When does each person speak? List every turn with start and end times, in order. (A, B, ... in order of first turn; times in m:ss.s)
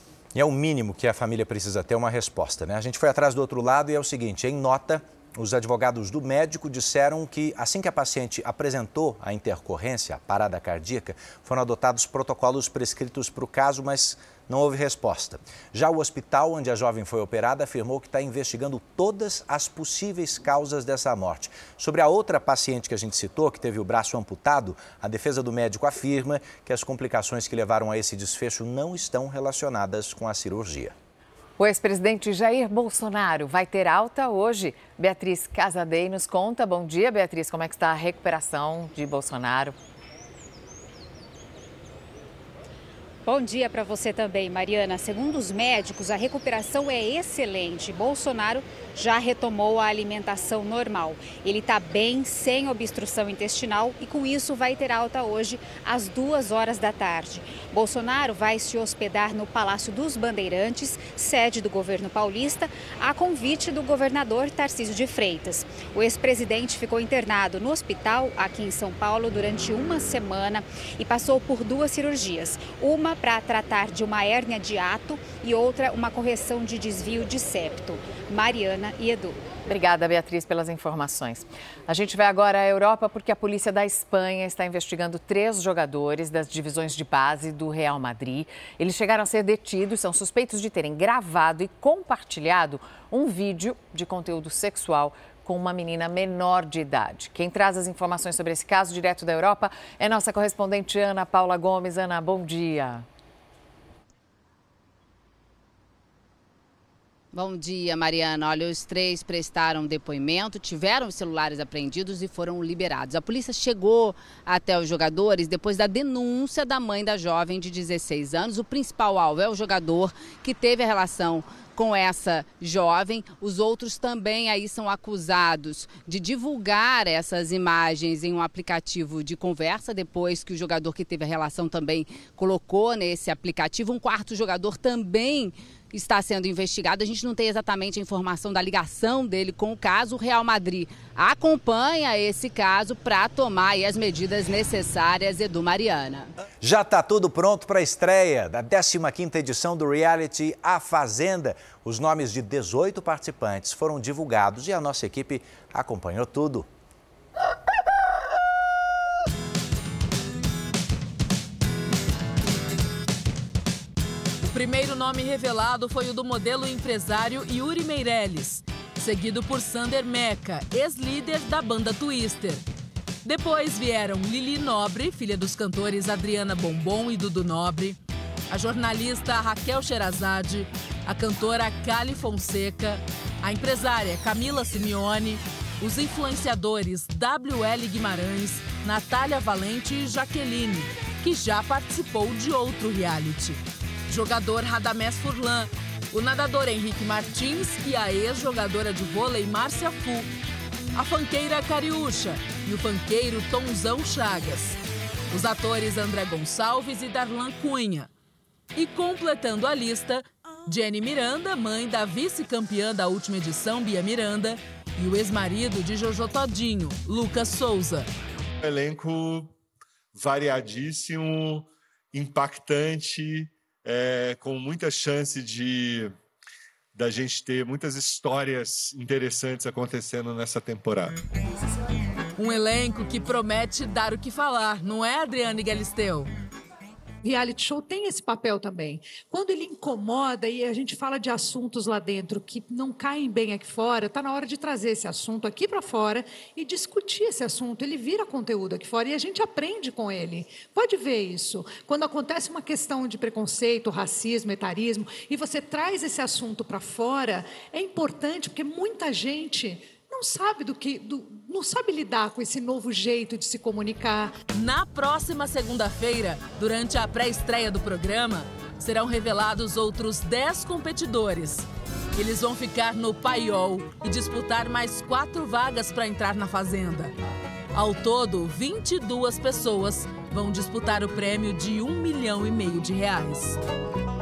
0:00.3-0:30.9 A
0:31.9-0:39.7 B
0:43.2-1:19.4 C
1:19.8-1:21.4 B
1:21.9-1:42.9 B
1:47.3-2:26.3 D
2:26.6-2:36.7 A
2:44.4-2:52.6 E
2:53.2-2:58.0 E
2:58.5-3:20.3 E
3:20.9-3:24.8 E
3:25.3-3:28.1 E
3:28.7-3:38.1 E
3:38.6-3:39.5 F
3:40.1-3:46.1 F
3:46.9-3:51.2 F
3:52.4-3:56.3 E
3:57.2-4:24.4 G
4:24.5-4:37.1 E
4:37.7-4:43.6 E